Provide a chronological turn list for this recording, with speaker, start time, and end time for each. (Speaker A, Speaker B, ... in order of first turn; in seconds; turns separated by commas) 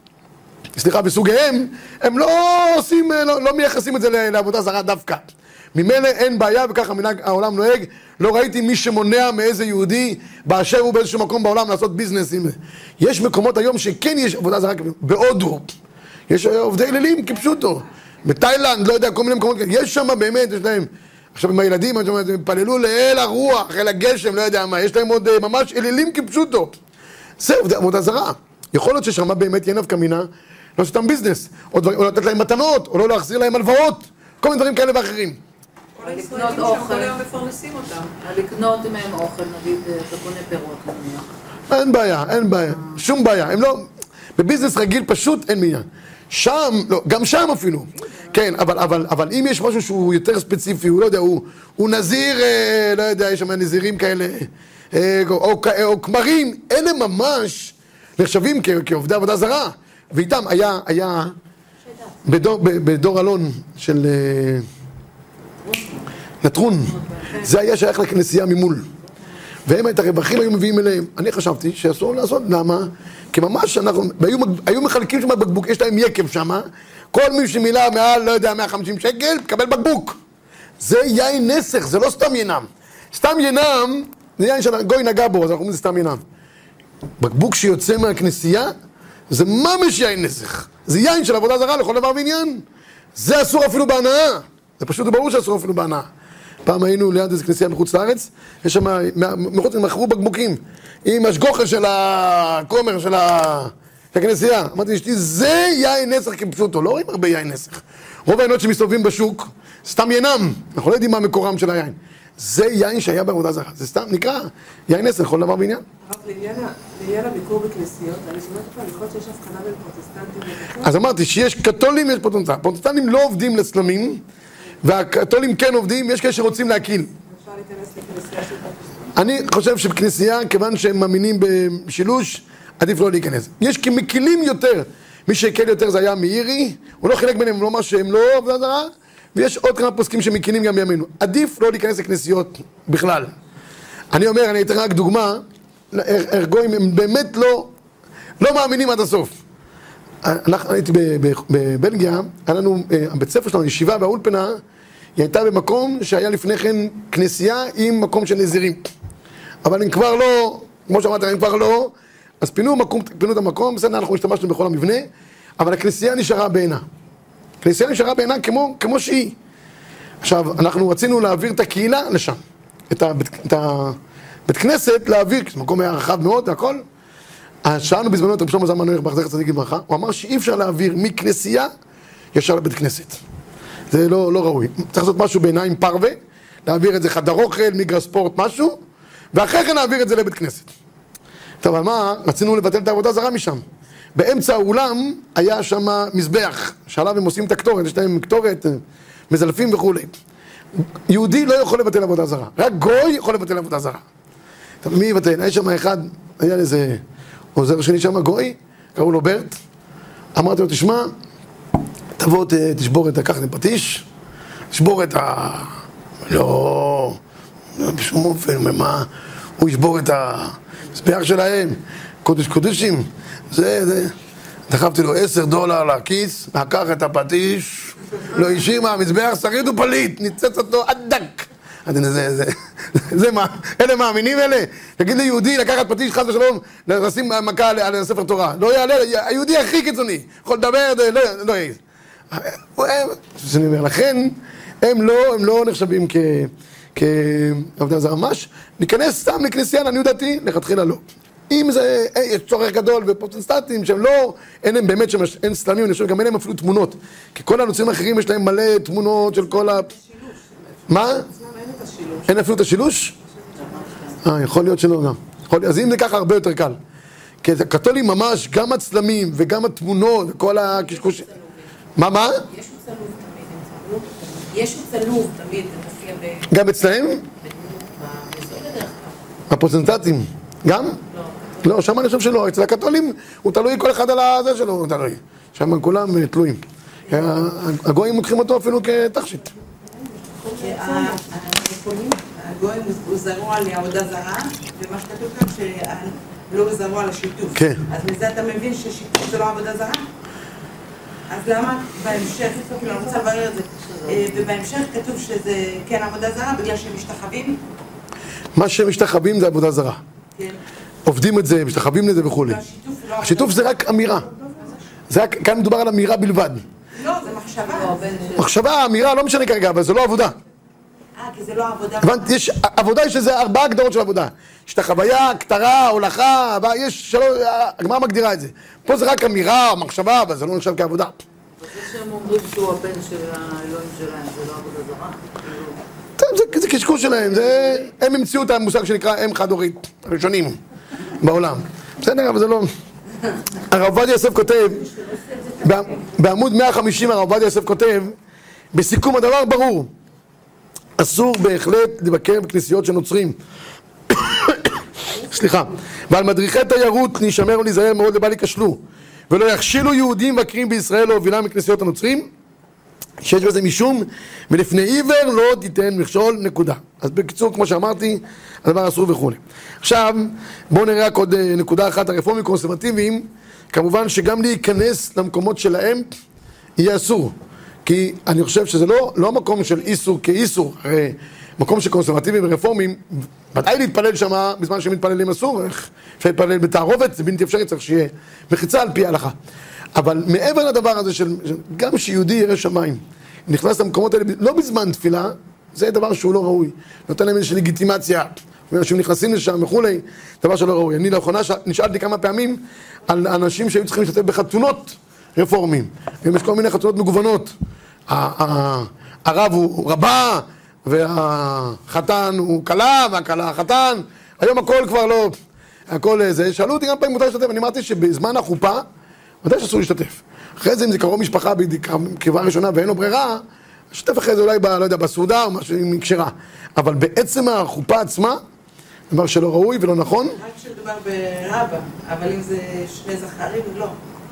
Speaker A: 0.8-15.7, Speaker A: 16.3-26.8, Speaker A: 27.4-35.4, Speaker B: 36.0-38.1, Speaker C: 36.0-37.2, Speaker C: 38.1-41.3, Speaker A: 41.7-61.3, Speaker A: 62.2-64.7, Speaker C: 65.6-66.0, Speaker A: 66.4-68.9, Speaker C: 66.9-67.4, Speaker A: 69.7-80.2, Speaker A: 80.8-86.2, Speaker A: 87.2-88.7, Speaker A: 89.3-96.1, Speaker A: 96.6-115.8, Speaker D: 116.0-121.0, Speaker A: 120.8-124.2, Speaker A: 124.8-127.1, Speaker D: 127.3-129.1, Speaker A: 129.2-143.3, Speaker A: 144.1-147.7, Speaker A: 148.4-149.3, Speaker A: 150.2-154.6, Speaker A: 155.2-158.9, Speaker A: 159.6-165.1, Speaker A: 165.6-166.8, Speaker A: 167.6-169.3, Speaker A: 170.2-172.4, Speaker A: 172.9-176.8, Speaker A: 177.6-181.7, Speaker A: 182.3-183.2, Speaker A: 183.9-188.8, Speaker A: 189.3-190.7, Speaker A: 191.6-193.6, Speaker A: 194.1-200.1, Speaker A: 200.8-204.0, Speaker A: 204.8-207.0, Speaker A: 207.5-209.6, Speaker A: 210.3-211.1, Speaker A: 212.2-214.1, Speaker A: 214.7-217.2, Speaker A: 217.8-224.1, Speaker A: 224.7-241.8, Speaker A: 242.3-259.9, Speaker B: 259.3-260.3, Speaker A: 260.9-261.3, Speaker D: 261.0-262.3, Speaker A: 262.3-263.1, Speaker D: 263.4-264.0, Speaker C: 263.6-264.1, Speaker A: 264.2-266.8, Speaker A: 267.4-271.3, Speaker C: 270.5-271.6, Speaker A: 271.9-272.4, Speaker C: 272.5-272.9, Speaker B: 272.6-276.4, Speaker C: 274.5-275.2, Speaker A: 276.5-277.2, Speaker C: 277.4-279.1, Speaker A: 279.5-281.0, Speaker C: 281.1-281.6, Speaker A: 281.6-289.5, Speaker B: 290.6-300.0, Speaker D: 290.9-291.1, Speaker A: 297.5-297.8, Speaker B: 301.3-307.6, Speaker C: 302.1-304.4, Speaker A: 308.5-310.0, Speaker A: 311.1-312.6, Speaker B: 312.3-313.8, Speaker A: 313.2-314.3, Speaker A: 315.1-316.6, Speaker B: 316.9-318.2, Speaker C: 317.6-318.5, Speaker A: 318.4-320.4, Speaker B: 321.2-322.3, Speaker A: 322.0-331.1, Speaker C: 331.6-335.8, Speaker A: 336.2-340.6, Speaker A: 341.2-342.7, Speaker A: 343.7-344.9, Speaker A: 345.6-348.1, Speaker A: 348.7-349.9, Speaker A: 351.0-353.4, Speaker A: 354.1-362.3, Speaker A: 363.2-376.1, Speaker A: 376.8-389.3, Speaker A: 389.9-407.5, Speaker A: 408.1-415.4, Speaker A: 415.9-418.9, Speaker A: 419.4-428.4, Speaker A: 429.1-430.4, Speaker B: 430.2-434.0